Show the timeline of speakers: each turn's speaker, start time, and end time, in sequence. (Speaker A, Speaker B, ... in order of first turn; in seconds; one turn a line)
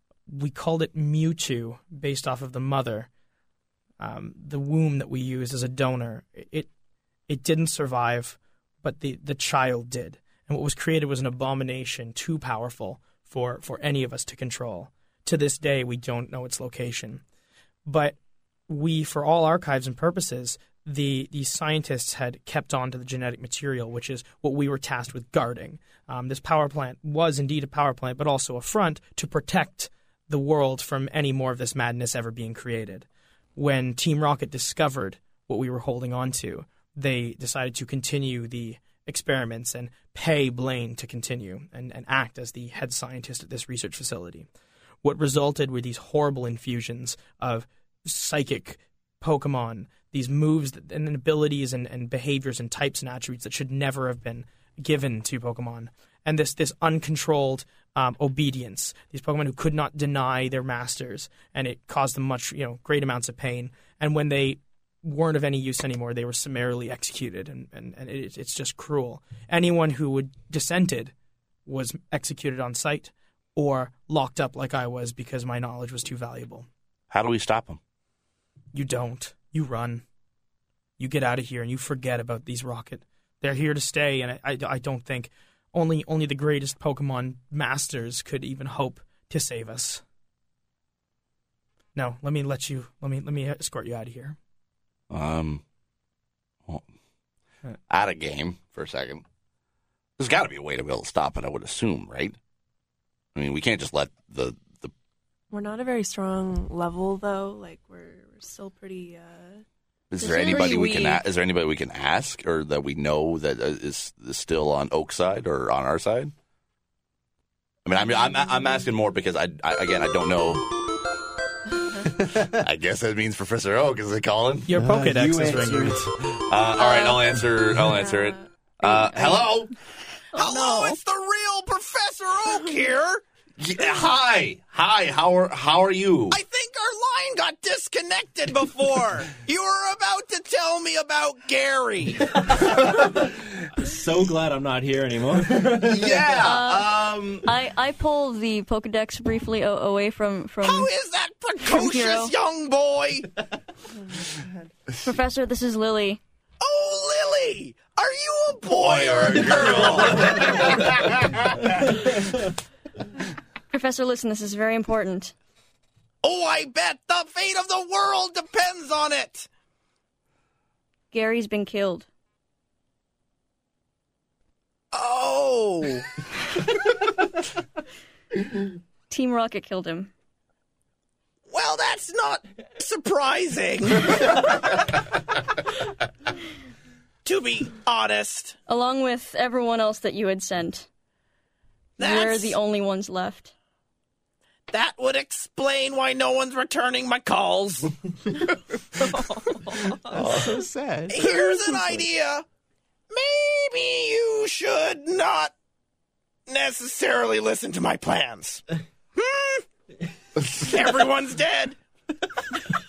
Speaker A: 0.3-3.1
Speaker A: 4.0-6.7
Speaker A: 7.3-17.2
Speaker A: 17.9-44.5
Speaker A: 45.0-71.1
Speaker A: 71.7-76.7
Speaker B: 77.1-77.8
Speaker A: 78.7-80.0
Speaker A: 81.0-90.0
Speaker A: 92.0-94.4
Speaker B: 95.1-95.6
Speaker B: 97.9-99.2
Speaker B: 100.2-102.4
Speaker B: 103.3-104.9
Speaker C: 105.5-109.6
Speaker B: 110.1-116.3
Speaker D: 110.2-111.2
Speaker B: 117.9-120.7
Speaker B: 122.2-124.7
Speaker A: 124.7-126.0
Speaker E: 124.8-126.4
Speaker B: 126.5-129.7
Speaker C: 126.9-127.2
Speaker C: 128.0-128.5
Speaker D: 128.9-129.4
Speaker D: 130.3-131.0
Speaker F: 130.3-133.2
Speaker B: 133.6-136.4
Speaker F: 136.3-142.3
Speaker G: 142.4-146.5
Speaker B: 145.8-147.5
Speaker D: 146.4-150.9
Speaker F: 150.6-153.3
Speaker D: 151.6-152.3
Speaker D: 155.0-156.2
Speaker F: 156.6-160.9
Speaker B: 158.7-161.3
Speaker D: 163.7-165.3
Speaker F: 166.2-169.5
Speaker D: 171.1-172.1
Speaker F: 174.9-176.0
Speaker D: 179.1-180.1
Speaker F: 181.5-184.8
Speaker F: 187.2-188.6
Speaker D: 188.7-190.9
Speaker F: 192.0-192.6
Speaker D: 192.0-193.5
Speaker F: 194.7-197.9
Speaker E: 200.1-202.1
Speaker B: 200.2-200.6
Speaker F: 201.1-202.4
Speaker F: 203.1-205.5
Speaker F: 206.5-208.6
Speaker F: 209.2-209.6
Speaker F: 210.4-211.8